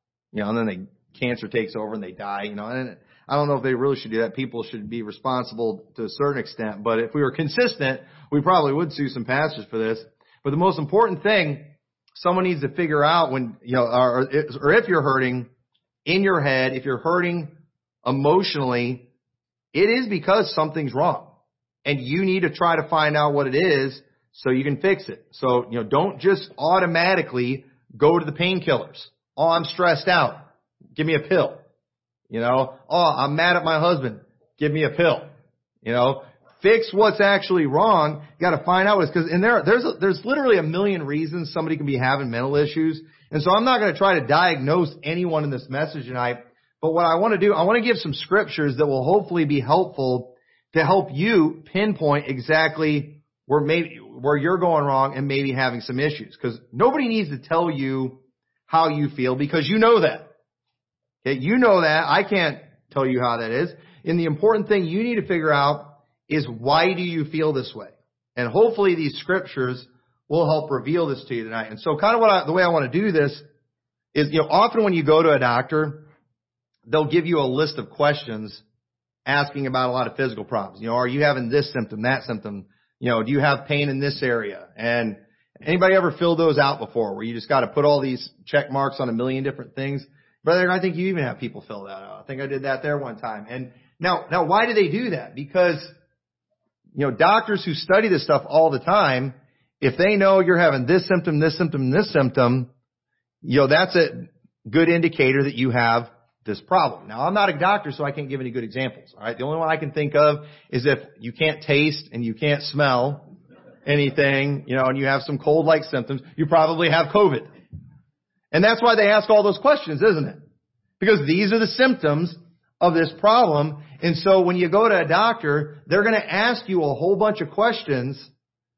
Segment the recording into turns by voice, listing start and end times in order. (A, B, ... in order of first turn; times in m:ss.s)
0:00.3-0:15.5 A
0:16.0-0:19.1 A
0:19.7-0:21.3 A
0:21.8-0:31.6 A
0:32.3-0:35.3 A
0:35.8-1:00.3 A
1:01.2-1:13.4 A
1:14.1-1:16.1 A
1:16.9-1:18.6 A
1:19.2-1:35.9 A
1:37.0-1:42.7 A
1:43.4-1:53.2 A
1:53.8-1:57.5 A
1:58.5-2:00.4 A
2:01.0-2:08.3 A